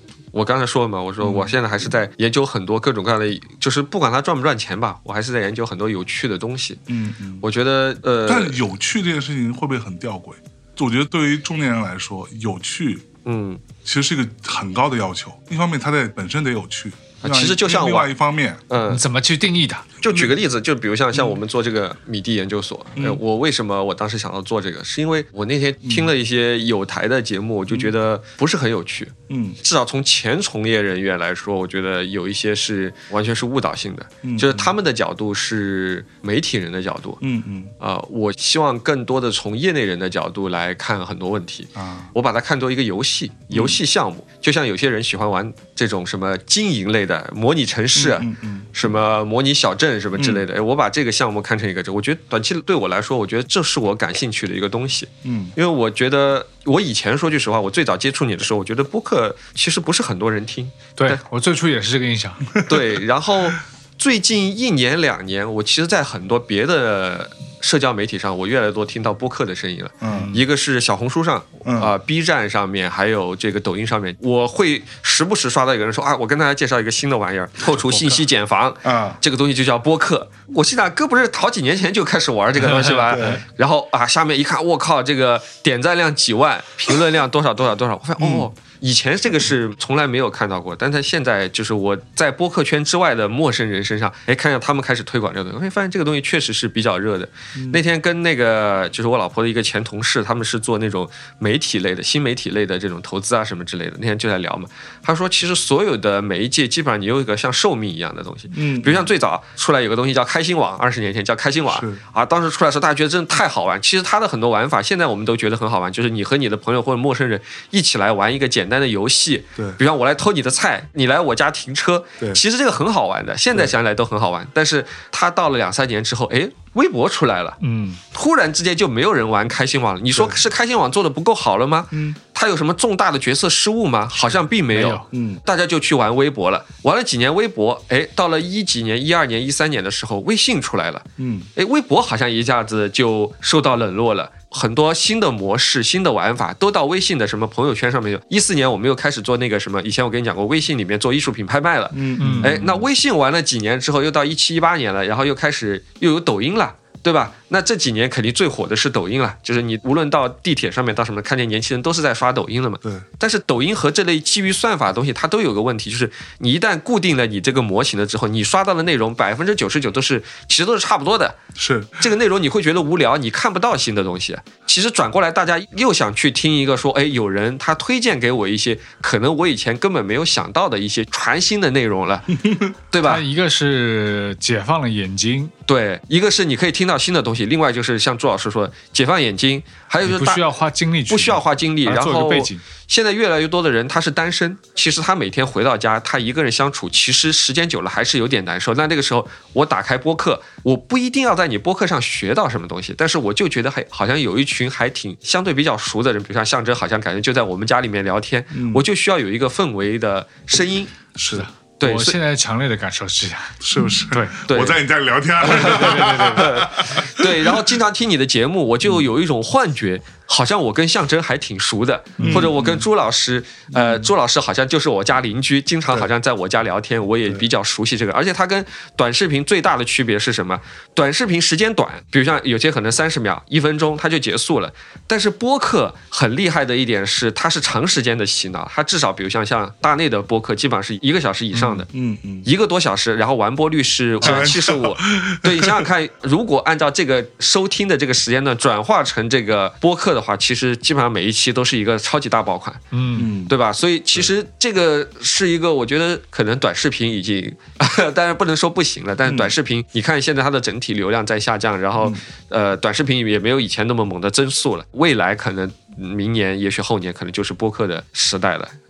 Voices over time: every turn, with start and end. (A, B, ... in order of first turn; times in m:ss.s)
0:00.3-0:06.8 A
0:01.2-0:01.6 B
0:06.9-0:07.5 B
0:07.4-0:08.6 A
0:08.2-0:13.1 B
0:13.2-0:13.6 A
0:13.8-0:18.6 B
0:17.2-0:18.1 A
0:18.7-0:19.0 A
0:18.9-0:19.9 C
0:20.0-0:20.4 B
0:20.0-0:37.2 A
0:21.1-0:21.4 B
0:23.0-0:23.2 B
0:25.8-0:26.1 B
0:29.3-0:29.6 B
0:34.2-0:34.8 B
0:37.2-0:37.7 B
0:37.8-1:01.2 A
0:41.8-0:42.1 B
0:43.5-0:43.8 B
0:47.9-0:48.8 B
0:50.2-0:50.4 B
0:55.2-0:55.6 B
1:01.0-1:02.6 C
1:02.6-2:07.6 A
1:10.0-1:10.4 B
1:10.1-1:10.4 C
1:11.6-1:11.9 B
1:18.8-1:19.2 B
1:22.6-1:23.4 C
1:23.1-1:23.4 B
1:28.2-1:28.5 B
1:37.6-1:37.8 B
1:48.5-1:49.1 B
1:51.7-1:52.0 B
2:07.6-2:08.0 C
2:08.1-2:21.0 A
2:10.1-2:10.4 B
2:11.9-2:12.2 B
2:14.7-2:15.0 C
2:15.1-2:15.4 B
2:21.2-2:21.5 B
2:21.6-2:51.4 A
2:31.9-2:32.6 B
2:32.2-2:32.7 C
2:51.6-2:52.1 B
2:52.0-3:02.4 A
3:02.4-3:02.8 B
3:02.9-3:03.2 A
3:03.0-3:05.5 C
3:05.7-3:10.5 A
3:10.0-3:12.6 C
3:11.1-3:30.9 A
3:28.5-3:28.9 B
3:31.2-3:31.5 B
3:31.3-3:33.6 C
3:31.8-3:32.2 A
3:33.6-3:37.6 B
3:34.1-3:34.4 C
3:34.5-3:34.8 A
3:35.4-3:36.7 C
3:35.4-4:01.9 A
3:42.2-3:42.9 B
3:42.2-3:42.5 C
3:43.7-3:44.1 B
4:01.9-4:02.5 B
4:02.4-4:12.8 A
4:04.2-4:05.9 B
4:04.2-4:04.5 C
4:12.9-4:13.3 C
4:13.2-4:13.5 B
4:13.5-4:28.7 A
4:19.2-4:19.6 B